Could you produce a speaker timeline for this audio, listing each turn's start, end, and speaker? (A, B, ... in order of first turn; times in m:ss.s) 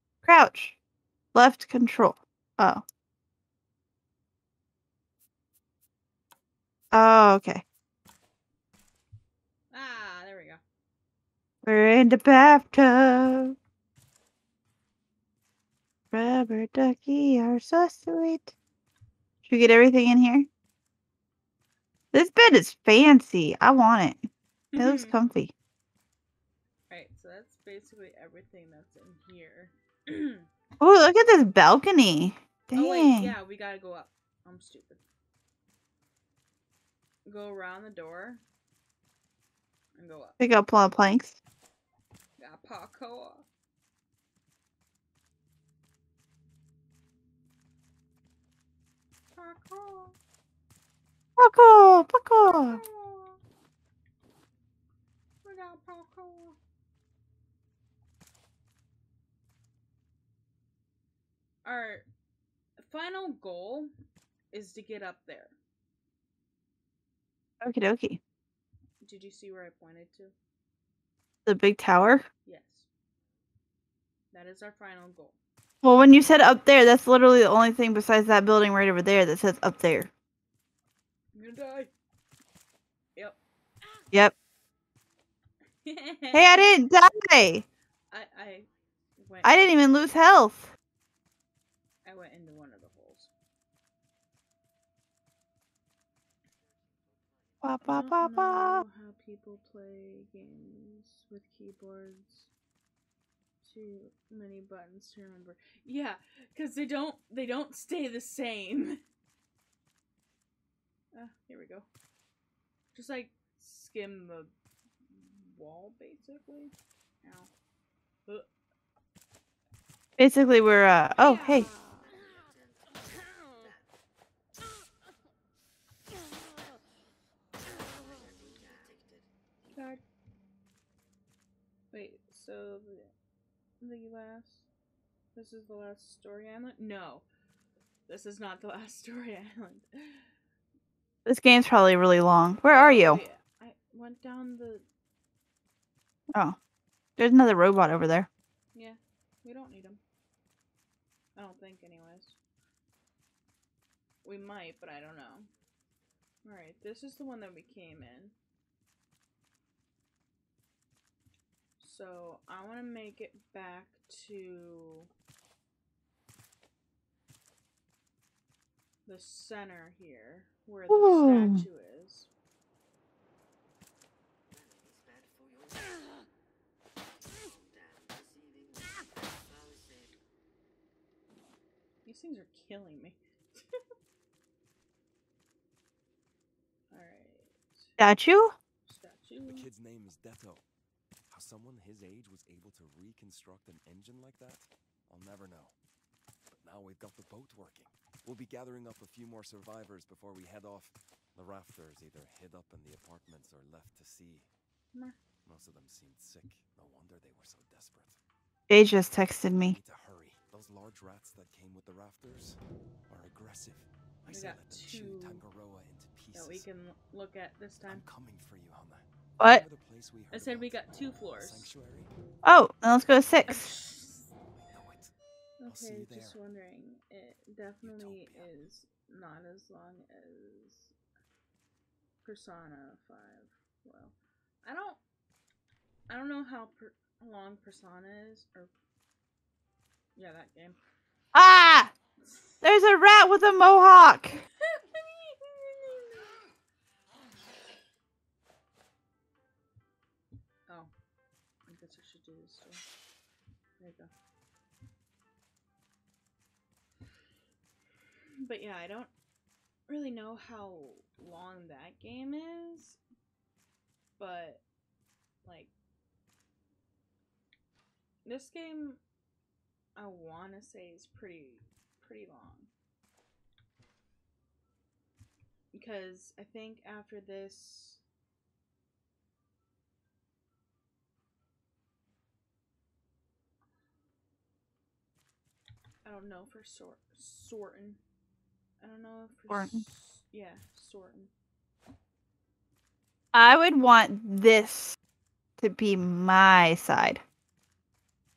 0:00.2-0:00.8 A
0:01.3-0:02.8 A
0:06.9-0:07.6 A
0:09.7-0:10.6 B
0:11.6-0:13.6 A
0:16.1-0:18.5 A
0:19.4-0:20.5 A
0:22.1-0:25.5 A
0:24.7-0:25.1 B
0:26.9-0:30.5 B
0:30.8-0:33.3 A
0:32.7-0:35.0 B
0:37.2-0:38.4 B
0:40.0-0:40.4 B
0:40.4-0:41.4 A
0:42.4-0:43.4 B
0:49.4-0:50.2 B
0:51.4-0:52.8 A
0:52.4-0:53.4 B
0:55.4-0:56.6 B
1:01.6-1:02.1 B
1:02.8-1:03.9 B
1:04.5-1:05.5 B
1:07.6-1:08.2 A
1:09.0-1:10.3 B
1:11.4-1:12.2 A
1:12.4-1:12.9 B
1:14.3-1:15.4 B
1:15.8-1:20.1 A
1:21.3-1:21.9 B
1:25.8-1:26.8 B
1:26.3-1:27.6 A
1:28.1-1:29.9 B
1:29.4-1:30.7 A
1:32.0-1:33.3 B
1:37.6-1:38.8 A
1:37.8-1:42.5 B
1:43.6-1:49.0 B
1:51.1-1:51.9 B
1:52.9-1:54.5 B
1:55.1-1:57.5 B
2:00.2-2:01.7 A
2:01.2-2:02.2 B
2:09.7-2:10.0 B
2:11.9-2:13.1 B
2:13.8-2:14.7 B
2:15.3-2:17.2 B
2:18.1-2:20.3 B
2:21.2-2:23.2 A
2:22.6-2:24.8 B
2:27.2-2:28.3 A
2:28.7-2:30.0 B
2:31.4-2:32.4 B
2:34.2-2:35.5 B
2:36.4-2:38.3 B
2:41.8-2:45.1 B
2:49.0-2:52.3 B
2:50.9-2:51.6 A
3:02.0-3:03.8 B
3:06.9-3:07.9 B
3:08.0-3:08.5 A
3:08.8-3:09.7 B
3:09.5-3:10.6 C
3:11.3-3:15.7 C
3:16.5-3:24.5 C
3:25.4-3:28.2 C
3:28.7-3:29.8 A
3:29.6-3:36.6 C
3:34.3-3:35.4 B
3:36.3-3:38.0 B
3:37.9-3:42.1 C
3:39.4-3:39.6 A
3:40.3-3:41.7 B
3:42.4-3:43.7 A
3:43.5-3:44.3 B
3:44.5-3:45.1 C
3:45.6-3:50.9 B
3:45.6-3:46.4 C
3:47.8-3:48.5 C
3:52.2-3:55.0 B
3:56.1-3:58.7 B
4:00.2-4:00.8 B
4:01.3-4:01.9 A
4:02.2-4:02.6 B
4:02.6-4:04.4 A
4:04.7-4:06.3 B
4:11.7-4:12.8 B
4:13.8-4:14.1 B
4:18.4-4:19.1 B
4:19.9-4:23.0 B
4:24.2-4:24.6 B
4:25.4-4:25.7 B
4:28.2-4:29.0 B
4:30.0-4:32.7 B
4:35.7-4:38.0 B
4:46.0-4:48.0 B
4:48.8-4:51.3 B
4:49.5-4:49.8 A
4:53.3-4:55.0 A
4:55.6-4:57.2 A